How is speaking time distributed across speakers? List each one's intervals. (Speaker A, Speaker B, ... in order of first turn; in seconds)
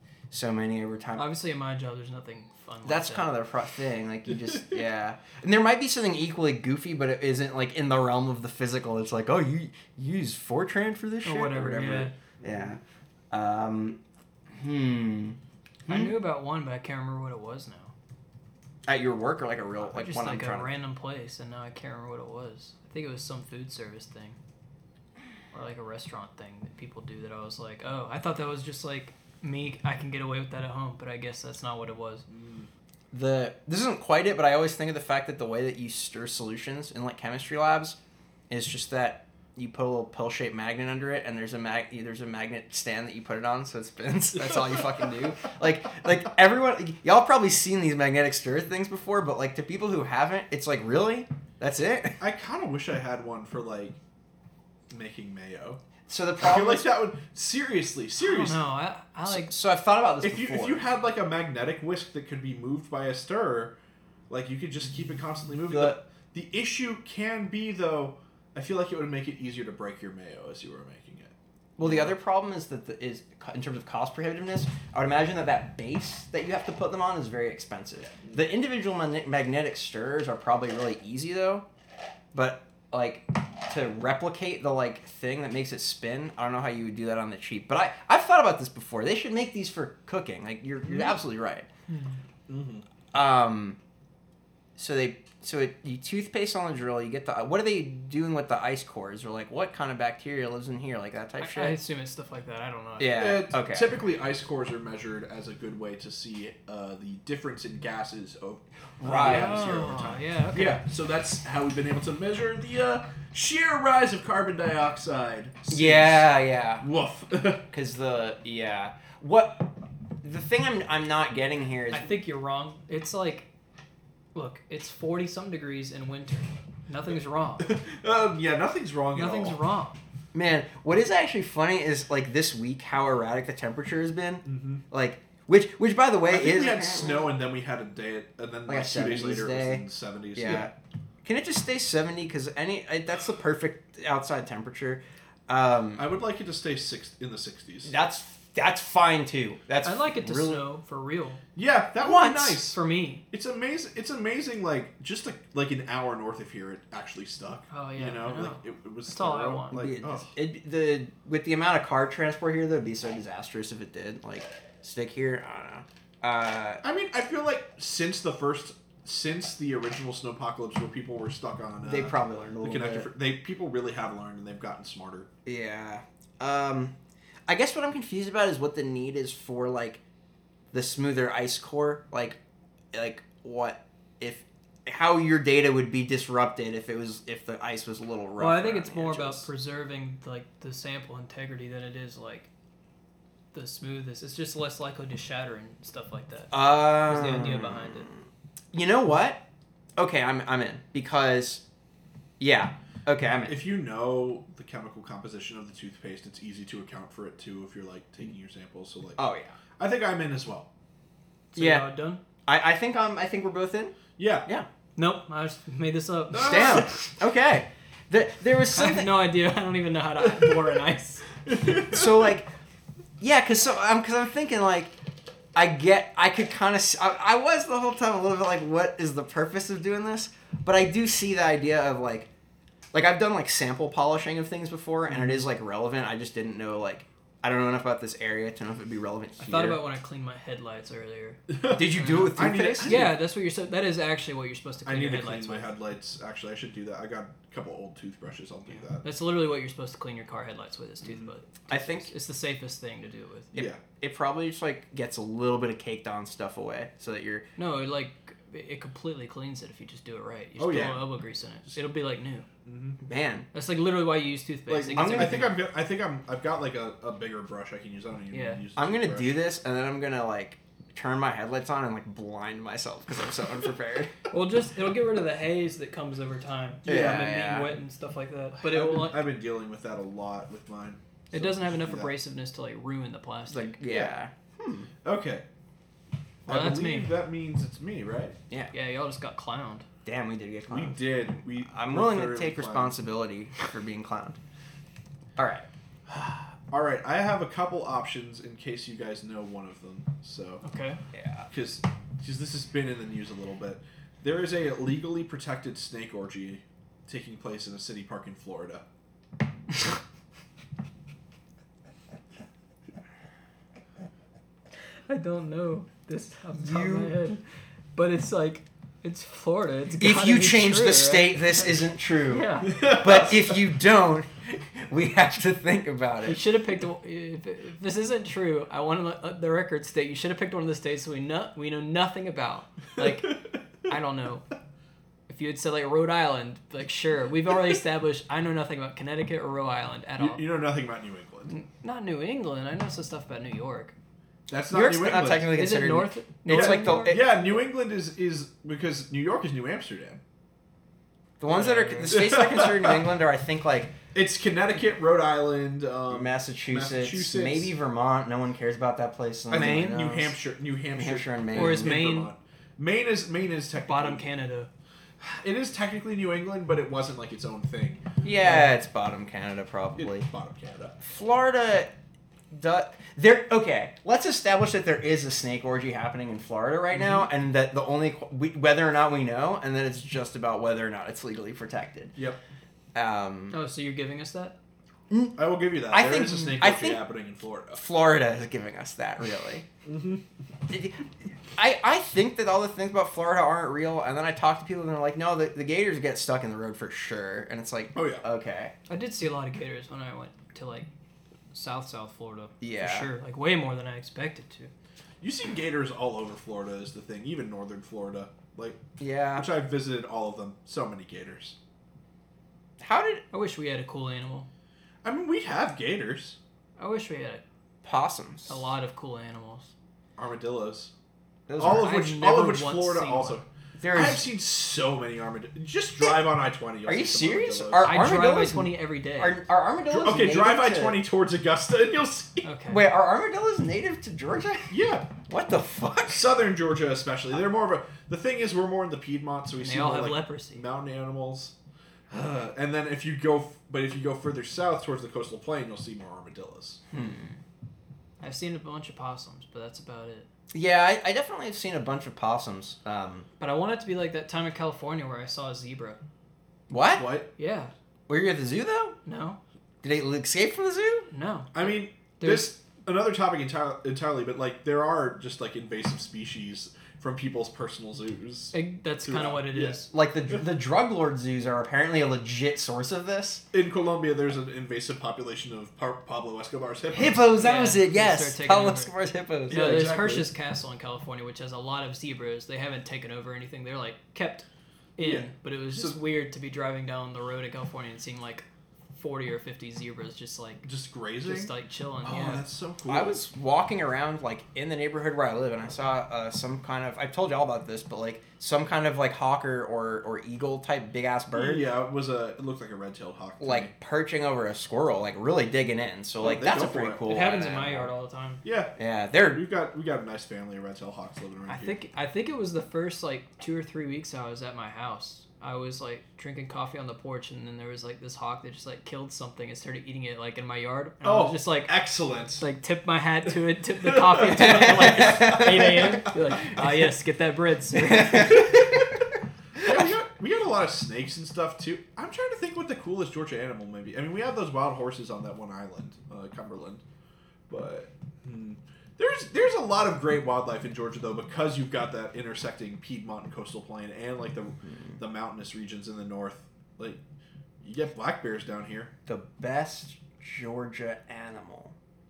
Speaker A: 0.3-1.3, 2.8-12.8, 13.3-16.2, 18.8-20.7, 33.1-38.0, 38.5-52.2, 56.1-56.9, 59.2-60.8, 65.7-66.0, 71.8-81.7, 82.3-91.7, 93.1-93.8, 94.8-101.8, 103.0-104.0, 109.0-109.7, 115.7-116.9, 117.7-122.1, 130.3-137.3, 138.7-140.7, 141.2-146.1, 147.8-150.6, 152.0-152.6, 159.7-166.8, 171.8-173.1, 175.4-176.9, 177.5-180.0, 180.7-182.4, 182.9-189.5, 196.5-198.2, 198.7-199.4, 200.0-201.6, 202.4-203.6, 209.2-209.5, 211.6-211.9, 212.4-214.7, 216.3-219.2, 221.7-222.5, 223.2-224.9, 225.5-232.3, 232.9-239.8, 241.7-243.1, 251.7-252.1, 253.5-257.5, 263.0-263.4, 264.9-265.5, 268.8-274.1, 276.8-277.7, 283.5-284.9, 290.0-294.4, 295.4-295.7, 301.1-301.5, 316.5-317.1, 320.0-326.4, 344.7-347.4, 351.4-353.9, 356.1-360.4, 360.9-362.0, 368.2-370.3, 371.0-371.9, 372.5-382.1, 382.9-383.6, 385.1-387.0, 387.7-389.6, 390.7-398.7, 402.6-403.1, 409.0-409.5, 412.8-413.2, 417.8-418.6, 421.5-422.0, 423.8-424.2, 426.8-431.1, 432.7-436.4, 446.9-447.3, 450.5-453.3, 456.7-457.1, 458.1-458.9, 459.8-461.1, 469.9-473.4, 476.9-479.7, 492.9-501.7, 503.4-507.9, 508.8-509.4, 524.3-526.1, 527.8-528.9, 529.6-529.9, 549.0-551.7
Speaker B: 1.1-3.3, 11.2-12.1, 15.9-17.9, 19.8-24.4, 25.5-32.2, 58.2-59.5, 91.9-92.2, 101.4-103.2, 109.0-110.8, 121.9-123.5, 124.3-127.7, 129.1-130.0, 149.8-151.4, 152.7-153.2, 157.7-159.8, 188.4-192.5, 193.5-198.1, 211.5-212.2, 214.9-217.0, 218.7-221.2, 239.4-241.4, 241.9-245.7, 248.9-253.6, 257.6-262.4, 263.5-265.6, 268.3-268.6, 274.3-279.2, 281.3-283.8, 286.5-287.1, 288.7-289.9, 300.6-301.0, 315.1-317.4, 317.9-321.5, 322.3-322.8, 326.2-334.5, 335.3-340.4, 341.5-343.9, 345.6-347.2, 359.5-360.0, 361.5-362.3, 363.9-364.7, 383.5-384.6, 398.9-400.9, 401.5-404.7, 413.3-414.5, 416.8-417.4, 418.5-419.7, 421.7-423.4, 427.8-429.4, 432.4-432.8, 439.6-440.6, 448.2-450.3, 453.4-456.0, 457.4-457.7, 459.0-459.4, 461.1-462.5, 468.5-469.9, 477.4-478.9, 479.5-484.4, 485.0-490.6, 491.2-492.4, 507.1-508.4, 511.5-521.7, 522.4-528.5
Speaker C: 12.4-12.7, 32.3-32.7, 52.2-54.0, 54.9-55.8, 56.4-58.6, 60.2-63.8, 64.3-72.1, 90.9-91.2, 92.5-92.8, 103.1-117.6, 127.6-129.6, 134.4-134.8, 136.2-140.7, 145.9-147.9, 151.6-152.8, 153.3-160.3, 166.8-175.3, 203.4-209.2, 209.8-210.7, 214.2-214.5, 216.3-217.0, 221.4-222.3, 241.5-243.2, 244.8-249.0, 251.0-251.3, 253.5-253.8, 260.6-261.1, 262.6-263.0, 264.7-269.4, 276.9-277.3, 278.6-282.1, 283.8-284.1, 285.0-285.4, 286.4-288.4, 290.7-292.9, 296.1-300.6, 301.5-308.8, 322.6-323.6, 340.2-341.5, 344.5-345.5, 346.5-350.2, 351.5-353.1, 354.1-357.7, 359.5-364.2, 365.2-368.6, 370.0-371.0, 385.3-387.8, 389.8-390.2, 397.9-398.2, 405.2-408.8, 409.3-411.6, 415.0-416.4, 420.2-420.9, 421.6-428.0, 429.9-432.5, 434.7-435.1, 436.1-441.5, 442.1-446.8, 456.9-457.3, 461.5-468.5, 469.0-469.8, 473.5-477.3, 479.5-480.3, 485.0-486.0, 490.6-493.2, 501.3-503.7, 506.2-507.1, 508.4-511.8, 521.0-522.5, 523.8-526.1, 529.6-536.8, 537.5-547.0, 547.6-548.9